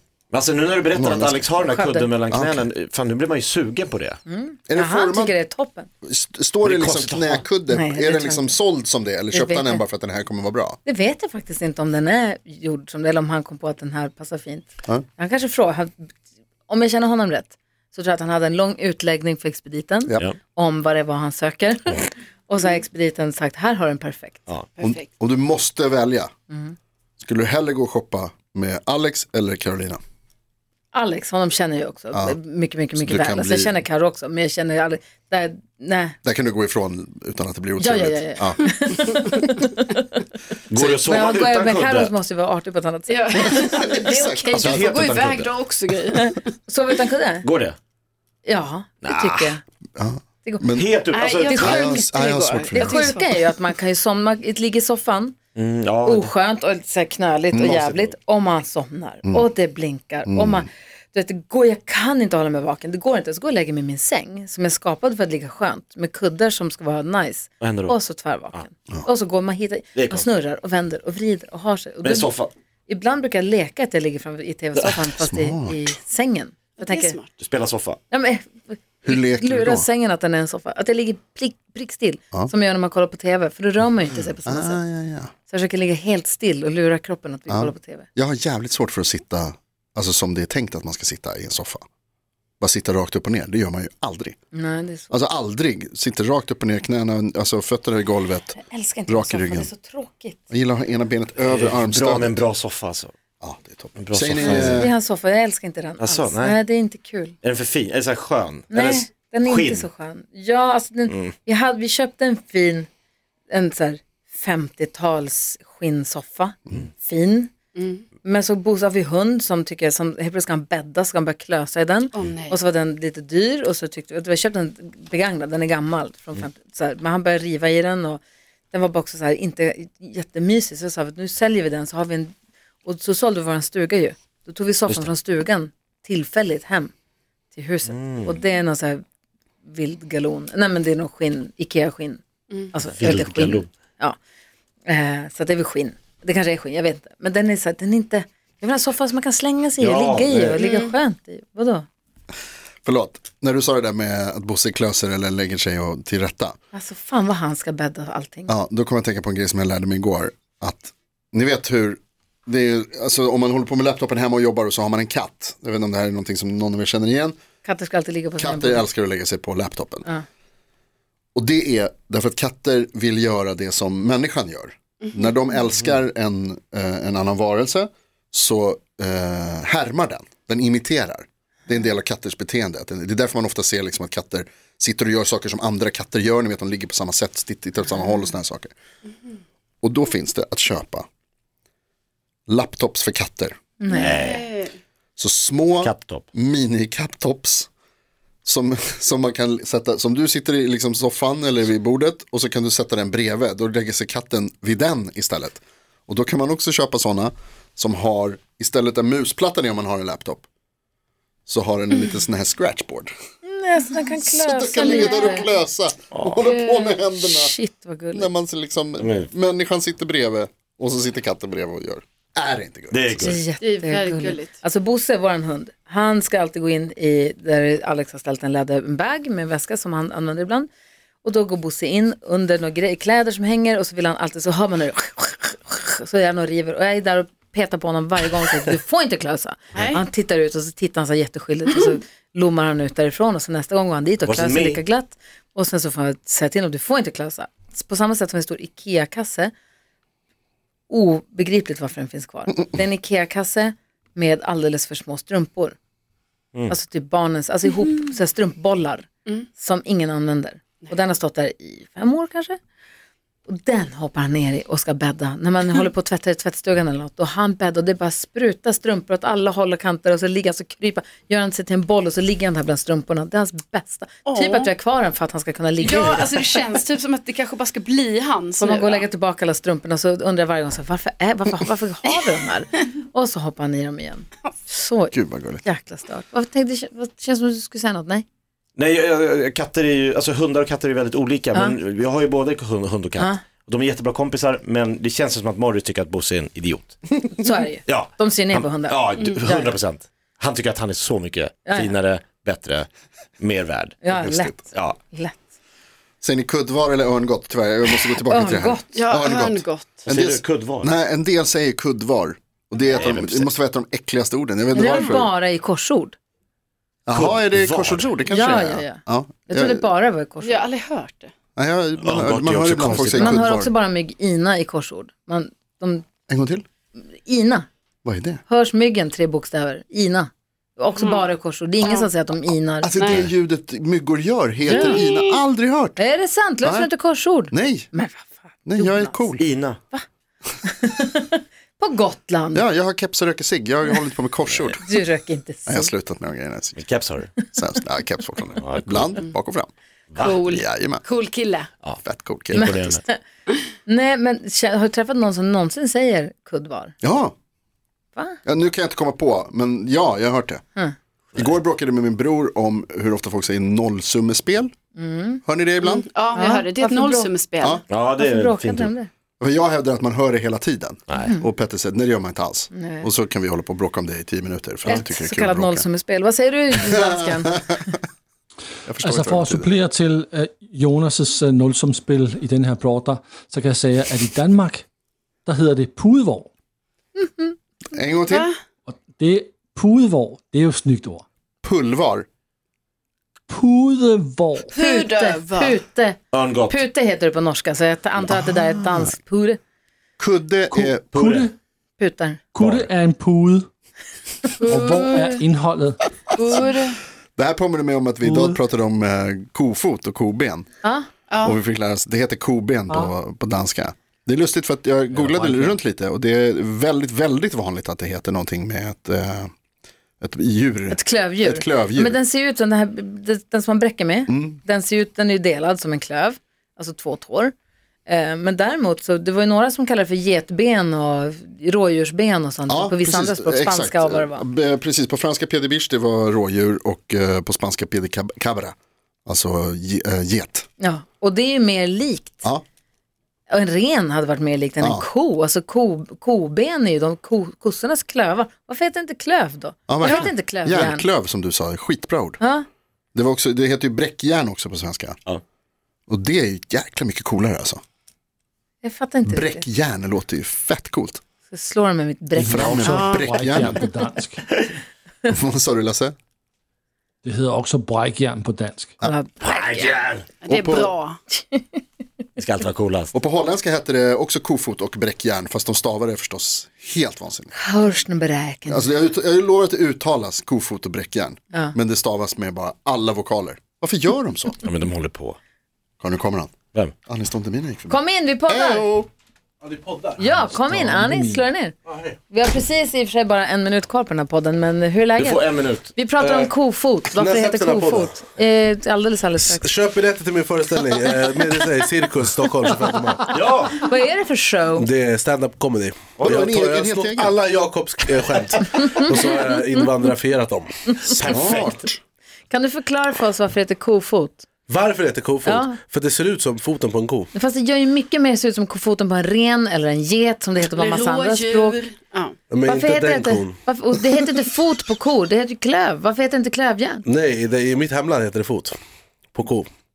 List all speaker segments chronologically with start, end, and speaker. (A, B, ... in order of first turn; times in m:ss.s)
0:00.3-0:04.2 A
0:00.9-0:01.5 B
0:01.6-0:02.1 C
0:02.3-0:02.7 B
0:04.3-0:05.9 C
0:04.7-0:05.3 B
0:06.0-0:10.8 B
0:06.6-0:07.4 A
0:07.7-0:08.5 C
0:09.3-0:09.8 C
0:10.8-0:16.1 C
0:16.7-0:24.4 C
0:24.8-0:26.3 B
0:26.5-0:26.7 C
0:27.2-0:30.0 B
0:30.9-0:36.2 C
0:32.1-0:32.4 B
0:32.9-0:33.8 B
0:36.2-0:38.6 B
0:37.8-0:40.2 C
0:40.7-0:42.1 A
0:40.8-0:43.9 C
0:43.1-0:46.3 D
0:43.6-0:45.0 B
0:44.5-0:45.5 A
0:46.2-0:47.4 C
0:47.4-0:47.8 A
0:48.4-0:49.6 C
0:49.0-0:49.5 A
0:50.0-0:51.0 B
0:50.7-0:51.9 A
0:51.1-0:53.2 D
0:51.5-0:51.8 C
0:51.5-0:53.1 B
0:52.7-0:55.4 C
0:55.5-0:56.3 A
0:56.0-1:12.3 C
0:57.6-0:58.1 A
1:00.2-1:00.7 B
1:07.6-1:08.0 A
1:09.9-1:10.3 A
1:12.0-1:12.5 A
1:12.9-1:17.2 C
1:15.2-1:16.0 B
1:16.8-1:17.2 D
1:17.4-1:18.0 A
1:18.1-1:24.8 C
1:19.0-1:19.8 B
1:24.2-1:25.3 B
1:25.5-1:28.1 C
1:27.5-1:31.8 B
1:32.6-1:34.4 B
1:34.5-1:35.1 C
1:35.1-1:39.7 B
1:38.6-1:40.4 C
1:40.5-1:42.4 B
1:41.4-1:43.1 A
1:43.4-1:44.9 B
1:44.0-1:44.9 A
1:44.4-1:47.4 C
1:46.0-1:46.6 A
1:47.4-1:49.9 A
1:48.7-1:52.9 C
1:53.5-1:57.5 C
1:58.2-2:12.3 C
2:02.2-2:02.5 D
2:12.8-2:16.9 C
2:17.5-2:19.0 C
2:17.8-2:18.3 A
2:19.6-2:22.2 C
2:22.7-2:24.2 C
2:22.9-2:23.7 A
2:24.8-2:31.8 C
2:29.8-2:30.6 A
2:30.6-2:30.8 D
2:32.8-2:36.5 B
2:36.7-2:38.5 C
2:38.5-2:47.4 B
2:47.6-2:48.8 C
2:48.4-2:50.1 B
2:51.3-3:08.7 B
3:09.8-3:11.0 B
3:12.5-3:13.6 B
3:13.8-3:14.2 C
3:13.9-3:14.7 D
3:13.9-3:14.5 A
3:15.2-3:17.7 B
3:15.8-3:16.2 A
3:18.4-3:30.4 B
3:31.4-3:33.1 B
3:33.4-3:35.4 C
3:34.2-3:37.5 B
3:34.8-3:35.3 D
3:36.1-3:36.4 A
3:37.1-3:38.3 C
3:38.1-3:43.4 B
3:39.0-3:39.3 A
3:42.9-3:43.4 A
3:43.1-3:50.7 C
3:43.6-3:44.5 D
3:51.2-4:09.5 C
4:04.2-4:04.8 A
4:10.9-4:15.8 C
4:16.7-4:22.6 C
4:23.5-4:36.4 C
4:34.3-4:34.7 D
4:35.9-4:39.0 D
4:38.6-4:48.2 C
4:45.1-4:45.6 B
4:48.8-4:57.1 A
4:57.4-4:59.8 C
4:57.8-5:02.9 A
5:01.7-5:01.9 C
5:03.4-5:05.0 A
5:04.0-5:05.4 C
5:06.2-5:15.3 B
5:08.2-5:09.0 C
5:08.9-5:09.9 D
5:10.0-5:10.9 A
5:12.9-5:13.5 A
5:14.7-5:16.2 C
5:14.8-5:15.1 D
5:17.0-5:19.9 B
5:17.1-5:18.2 A
5:18.3-5:20.6 C
5:20.4-5:21.3 D
5:21.6-5:23.7 B
5:22.0-5:23.4 A
5:23.2-5:26.0 C
5:26.3-5:26.6 B
5:27.2-5:27.7 C
5:28.0-5:28.4 B
5:28.5-5:33.2 C
5:32.8-5:36.0 B
5:34.7-5:35.0 C
5:34.7-5:35.4 D
5:36.0-5:39.4 C
5:36.6-5:36.9 B
5:37.5-5:37.9 B
5:38.6-5:39.4 B
5:39.4-5:39.8 A
5:40.6-5:42.6 C
5:42.5-5:44.9 B
5:44.8-5:45.9 C
5:45.7-5:46.8 B
5:46.8-5:47.3 A
5:47.5-5:51.0 B
5:48.6-5:49.2 A
5:50.2-5:51.6 D
5:52.0-5:53.0 B
5:52.5-5:53.0 A
5:52.5-5:53.2 C
5:53.8-5:56.9 C
5:57.0-5:57.3 B
5:58.4-6:00.6 B
6:01.3-6:04.7 B
6:05.0-6:05.4 C
6:05.4-6:06.0 B
6:05.9-6:07.7 D
6:06.3-6:07.3 C
6:07.9-6:08.9 A
6:08.2-6:09.1 C
6:09.4-6:15.9 B
6:11.2-6:11.4 C
6:12.7-6:13.1 C
6:14.8-6:17.8 C
6:16.8-6:17.7 B
6:18.8-6:19.8 B
6:19.0-6:24.8 E
6:25.4-6:26.5 E
6:27.2-6:27.5 C
6:27.9-6:28.5 B
6:28.9-6:31.2 E
6:31.6-6:32.2 B
6:33.5-6:34.7 E
6:34.7-6:35.7 D
6:34.7-6:39.6 C
6:36.3-6:36.8 A
6:38.5-6:39.1 B
6:40.2-6:41.1 B
6:40.7-6:41.5 E
6:41.1-6:41.5 A
6:42.0-6:42.4 C
6:42.5-6:43.7 E
6:42.6-6:42.9 A
6:44.6-6:46.0 E
6:44.7-6:45.4 D
6:46.4-6:47.0 D
6:47.4-6:50.6 B
6:48.2-6:48.6 E
6:50.8-6:51.1 C
6:51.4-6:59.5 B
6:55.1-6:55.8 E
7:00.2-7:02.2 B
7:00.9-7:07.5 C
7:04.3-7:04.6 B
7:08.1-7:14.4 C
7:12.7-7:18.7 B
7:19.2-7:20.6 B
7:20.8-7:22.5 C
7:23.5-7:31.0 C
7:24.8-7:25.0 B
7:29.9-7:32.4 B
7:32.4-7:32.6 C
7:33.1-7:35.2 B
7:36.1-7:37.8 B
7:38.8-7:39.6 C
7:39.2-7:41.2 B
7:41.5-7:42.9 C
7:42.4-7:44.4 E
7:42.4-7:43.9 B
7:42.9-7:43.2 D
7:45.3-7:46.1 B
7:47.2-7:48.9 E
7:49.0-7:50.0 C
7:49.4-7:50.2 A
7:50.4-7:51.1 D
7:50.5-7:50.9 B
7:51.4-7:51.8 C
7:52.4-7:53.1 A
7:53.1-7:57.5 B
7:57.5-7:58.9 C
7:58.7-8:04.6 B
8:04.6-8:05.4 A
8:06.0-8:06.5 B
8:07.1-8:09.1 B
8:07.9-8:08.9 C
8:09.6-8:10.3 F
8:10.2-8:11.7 C
8:10.4-8:11.4 E
8:11.9-8:12.2 F
8:12.3-8:19.7 C
8:15.2-8:15.9 A
8:16.2-8:16.5 F
8:17.1-8:18.1 F
8:19.4-8:23.3 F
8:23.3-8:23.8 A
8:23.7-8:24.9 C
8:24.7-8:31.3 F
8:26.2-8:27.3 B
8:31.1-8:31.8 A
8:31.2-8:32.0 B
8:32.5-8:34.4 C
8:34.7-8:37.3 F
8:35.4-8:35.8 C
8:37.3-8:41.8 C
8:40.7-8:42.3 D
8:42.5-8:43.6 F
8:42.6-8:47.0 C
8:47.0-8:48.7 F
8:49.3-8:49.7 F